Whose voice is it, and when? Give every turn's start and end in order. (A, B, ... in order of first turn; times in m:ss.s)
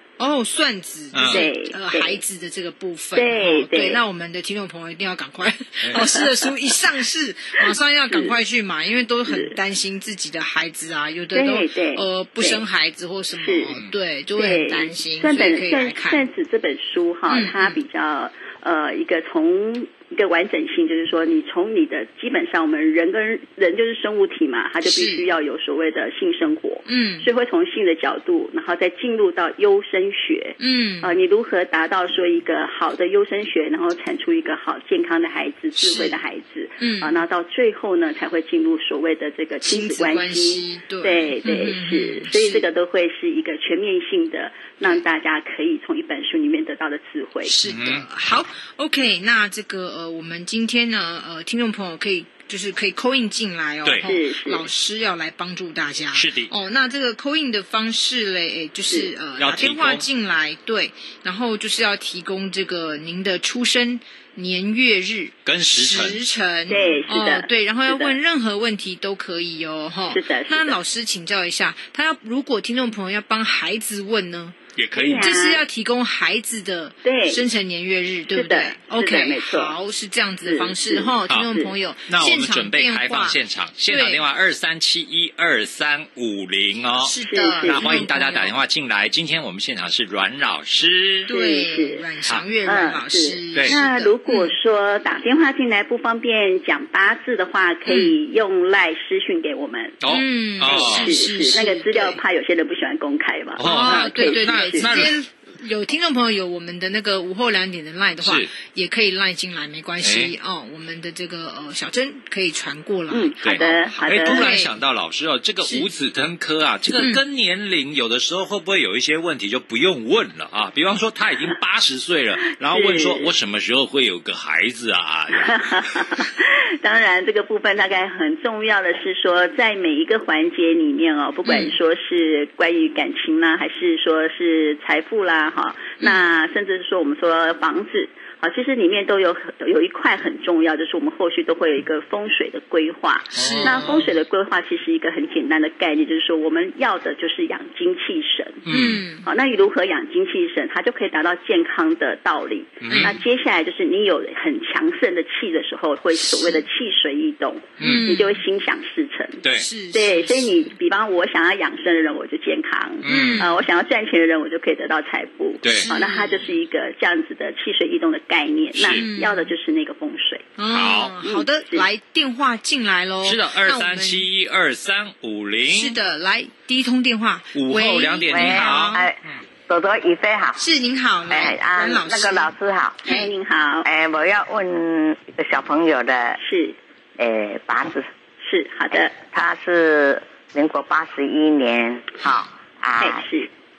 0:00.2-0:16.3 A
0:01.1-0:01.4 B
0:01.3-0:02.2 C
0:03.1-0:04.0 C
0:07.7-0:08.3 C
0:09.3-0:09.6 C
0:11.3-0:12.6 C
0:13.4-0:13.8 C
0:14.3-0:47.6 C
0:17.3-0:17.8 A
0:24.8-0:25.3 A
0:26.9-0:27.3 A
0:30.6-0:31.1 A
0:35.8-0:36.2 A
0:36.8-0:37.2 A
0:39.6-0:42.7 A
0:47.4-1:14.6 A
0:47.6-0:48.0 B
0:54.0-0:54.7 C
0:56.1-0:56.5 B
0:59.4-1:00.0 B
1:05.5-1:06.2 B
1:06.7-1:08.2 C
1:10.1-1:10.8 C
1:14.8-1:15.2 B
1:14.9-1:15.6 C
1:15.2-1:24.2 A
1:17.0-1:17.4 C
1:18.3-1:19.8 C
1:20.4-1:21.7 C
1:22.1-1:31.3 B
1:27.0-1:28.5 A
1:27.2-1:27.9 C
1:31.3-1:34.5 A
1:31.3-1:32.1 C
1:32.6-1:40.1 C
1:37.9-1:38.2 A
1:40.0-1:41.1 B
1:40.1-1:42.2 A
1:40.6-1:45.0 C
1:43.6-1:45.1 B
1:43.6-1:54.7 A
1:48.2-1:48.5 B
1:50.0-1:50.3 B
1:53.1-1:54.5 C
1:53.4-2:05.6 B
1:56.9-1:57.2 A
2:02.6-2:03.3 C
2:05.4-2:28.6 C
2:11.5-2:11.8 A
2:23.4-2:24.0 A
2:23.4-2:24.1 B
2:28.7-2:29.0 B
2:28.7-2:29.2 A
2:29.2-2:50.6 C
2:32.8-2:33.2 B
2:32.9-2:33.2 A
2:36.2-2:36.6 A
2:37.8-2:38.1 B
2:37.8-2:38.4 A
2:39.6-2:40.8 A
2:43.0-2:43.5 B
2:43.1-2:43.6 A
2:45.6-2:45.9 B
2:45.8-2:46.5 A
2:48.9-2:49.5 A
2:50.6-2:54.2 A
2:50.7-2:51.2 B
2:51.2-2:51.9 C
2:53.2-2:56.0 B
2:55.7-2:59.1 A
2:57.5-2:59.4 B
2:58.3-3:00.6 D
3:00.6-3:02.5 A
3:01.3-3:03.0 D
3:03.0-3:03.9 C
3:03.0-3:03.3 A
3:03.8-3:06.4 D
3:06.4-3:06.8 C
3:07.2-3:08.1 D
3:08.4-3:09.1 C
3:08.9-3:13.2 D
3:12.2-3:12.5 A
3:13.0-3:13.5 C